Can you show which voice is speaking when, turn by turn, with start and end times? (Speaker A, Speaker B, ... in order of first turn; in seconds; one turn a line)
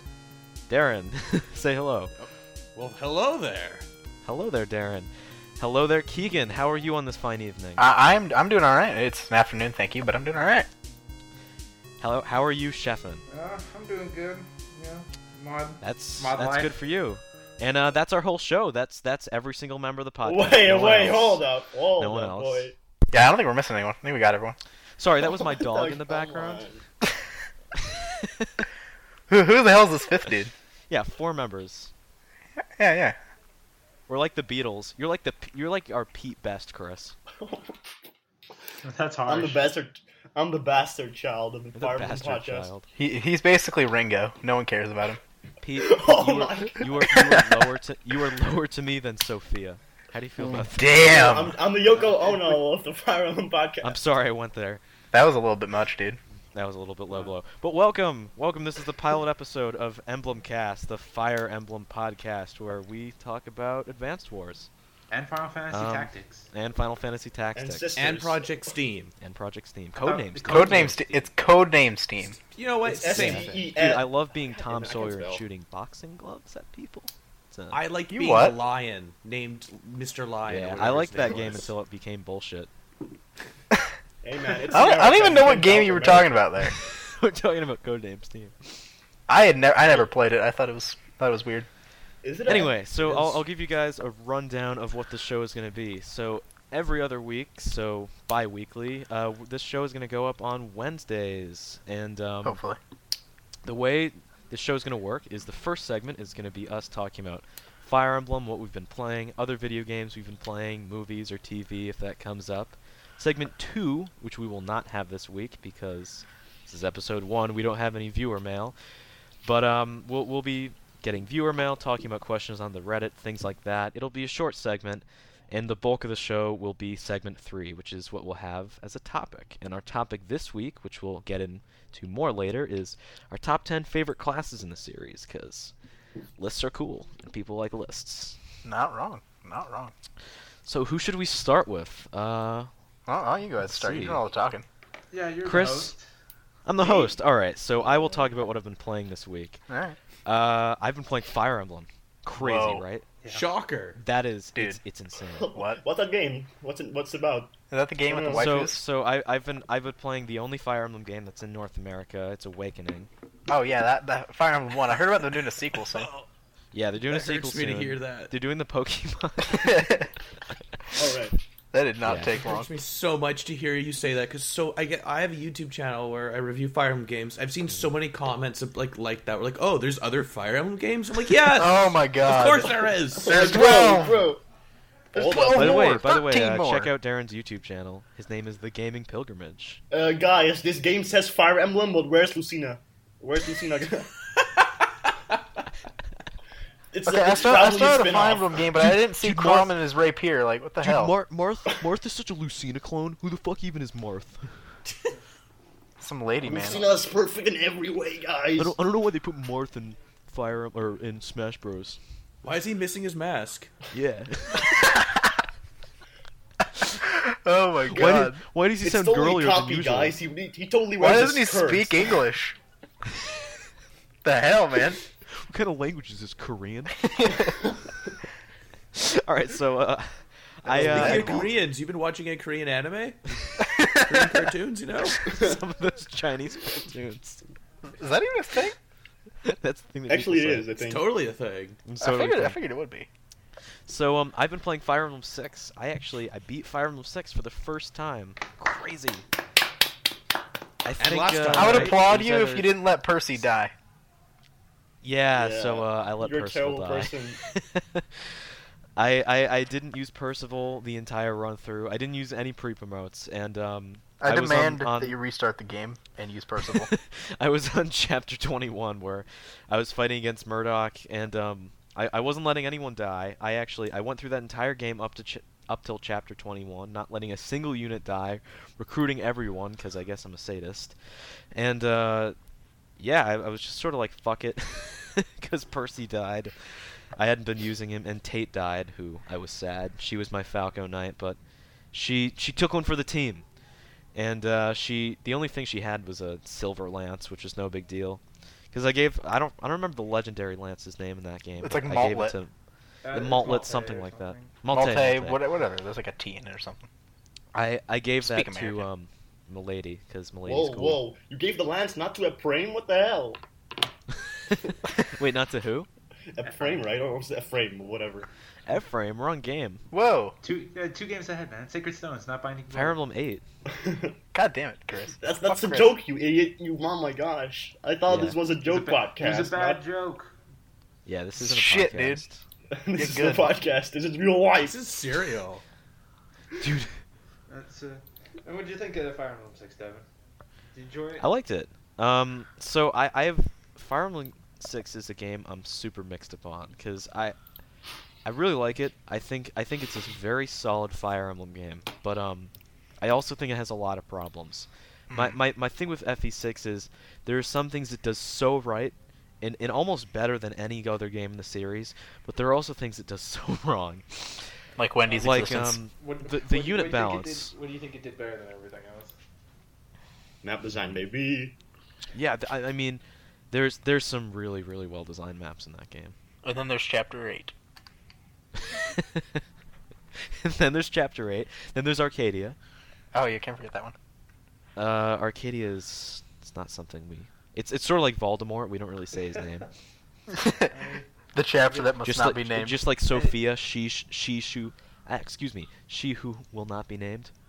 Speaker A: 0.7-2.1
Speaker B: 2.1-3.9
Speaker A: 4.2-7.9
Speaker C: 7.8-10.7
Speaker A: 12.0-13.2
Speaker D: 13.3-16.7
Speaker A: 15.8-21.4
Speaker E: 20.2-22.7
Speaker A: 21.9-22.7
Speaker C: 23.1-24.6
Speaker A: 25.0-26.7
Speaker E: 25.2-26.8
Speaker A: 28.1-28.6
Speaker C: 29.3-30.5
Speaker A: 30.9-31.9
Speaker C: 32.8-33.2
Speaker A: 34.1-37.1
Speaker E: 37.4-37.7
Speaker D: 38.8-39.7
Speaker E: 39.2-42.7
Speaker A: 41.7-42.9
Speaker C: 42.9-45.2
Speaker A: 45.6-51.0
Speaker E: 45.8-47.2
Speaker C: 47.1-47.6
Speaker C: 50.5-51.6
Speaker E: 50.9-54.0
Speaker A: 52.0-52.3
Speaker A: 53.8-54.8
Speaker C: 55.1-56.2
Speaker A: 56.5-64.7
Speaker D: 65.1-66.5
Speaker A: 65.7-67.9
Speaker E: 67.5-68.7
Speaker B: 68.0-69.1
Speaker A: 69.2-71.3
Speaker D: 70.0-71.2
Speaker C: 70.4-72.4
Speaker B: 72.4-73.6
Speaker E: 72.8-75.4
Speaker A: 73.0-77.8
Speaker B: 77.7-81.7
Speaker C: 78.1-78.6
Speaker A: 80.5-82.7
Speaker E: 81.1-81.6
Speaker E: 84.2-86.4
Speaker C: 84.7-86.8
Speaker A: 86.6-88.7
Speaker C: 89.3-91.7
Speaker E: 92.2-93.3
Speaker A: 92.5-102.6
Speaker C: 102.4-102.8
Speaker A: 103.6-118.7
Speaker A: 119.4-135.7
Speaker A: 136.4-138.4
Speaker C: 138.6-139.9
Speaker A: 140.6-142.7
Speaker C: 143.1-144.6
Speaker A: 143.6-144.2
Speaker D: 145.1-146.1
Speaker A: 145.4-145.9
Speaker A: 146.7-149.6
Speaker E: 146.8-147.1
Speaker C: 149.7-150.0
Speaker A: 150.2-153.0
Speaker C: 152.3-152.8
Speaker B: 153.3-154.0
Speaker A: 154.0-155.5
Speaker E: 155.3-157.5
Speaker C: 155.5-155.8
Speaker C: 157.7-158.8
Speaker E: 158.1-158.5
Speaker A: 158.2-163.1
Speaker C: 163.5-166.1
Speaker B: 165.9-166.2
Speaker A: 166.7-170.0
Speaker B: 167.1-168.3
Speaker C: 169.5-170.1
Speaker E: 170.9-171.3
Speaker C: 171.7-172.7
Speaker A: 172.0-172.3
Speaker B: 172.2-183.5
Speaker C: 181.5-184.3
Speaker E: 182.6-184.4
Speaker E: 185.1-185.9
Speaker C: 185.1-186.9
Speaker A: 185.5-189.8
Speaker E: 189.9-194.3
Speaker E: 196.9-198.7
Speaker C: 197.0-201.1
Speaker A: 198.8-199.8
Speaker A: 200.8-204.6
Speaker C: 206.0-206.8
Speaker E: 206.4-208.8
Speaker A: 208.6-212.0
Speaker B: 212.4-213.7
Speaker A: 213.9-215.0
Speaker C: 214.7-215.2
Speaker C: 216.8-218.4
Speaker A: 217.9-220.2
Speaker E: 218.8-222.2
Speaker C: 221.0-222.6
Speaker C: 224.2-225.0
Speaker A: 225.3-227.0
Speaker C: 227.0-227.6
Speaker A: 228.9-231.5
Speaker C: 230.7-231.5
Speaker B: 230.7-233.3
Speaker E: 231.0-231.3
Speaker C: 233.6-234.4
Speaker B: 233.9-235.3
Speaker A: 235.2-237.4
Speaker C: 237.9-238.8
Speaker A: 239.4-240.7
Speaker E: 240.1-241.1
Speaker B: 240.8-241.8
Speaker A: 241.8-242.6
Speaker C: 242.0-243.1
Speaker A: 243.9-249.2
Speaker A: 250.8-252.8
Speaker B: 251.0-252.1
Speaker C: 251.5-253.7
Speaker A: 255.0-265.2
Speaker E: 255.3-257.4
Speaker C: 264.2-266.9
Speaker A: 266.7-281.0
Speaker A: 281.5-282.4
Speaker A: 283.0-286.5
Speaker A: 287.1-291.4
Speaker A: 291.9-293.4
Speaker A: 294.1-302.5
Speaker C: 301.6-302.4
Speaker D: 303.0-304.5
Speaker A: 303.1-305.4
Speaker C: 304.7-306.9
Speaker A: 307.5-311.0
Speaker C: 308.2-308.9
Speaker E: 310.4-313.4
Speaker A: 314.5-315.9
Speaker E: 316.3-318.3
Speaker D: 316.4-316.9
Speaker A: 318.7-319.8
Speaker C: 319.9-320.4
Speaker D: 320.4-323.0
Speaker A: 322.7-323.4
Speaker E: 323.7-324.2
Speaker C: 324.3-326.0
Speaker E: 325.2-329.8
Speaker A: 328.1-328.4
Speaker D: 328.6-330.4
Speaker A: 331.1-332.4
Speaker C: 331.4-332.2
Speaker E: 332.7-334.8
Speaker C: 332.9-333.6
Speaker B: 334.6-335.6
Speaker A: 336.6-337.0
Speaker D: 337.5-340.1
Speaker D: 340.7-341.3
Speaker A: 341.2-347.4
Speaker A: 348.2-364.5
Speaker C: 355.1-355.4
Speaker C: 364.8-365.8
Speaker A: 365.1-367.5
Speaker D: 365.9-369.1
Speaker E: 370.4-371.6
Speaker A: 372.1-376.1
Speaker C: 376.4-377.5
Speaker A: 378.6-379.4
Speaker A: 380.3-382.6
Speaker C: 383.1-383.9
Speaker A: 384.8-389.7
Speaker C: 390.3-390.7
Speaker D: 390.7-391.1
Speaker C: 391.3-392.8
Speaker D: 391.6-391.9
Speaker A: 392.0-397.3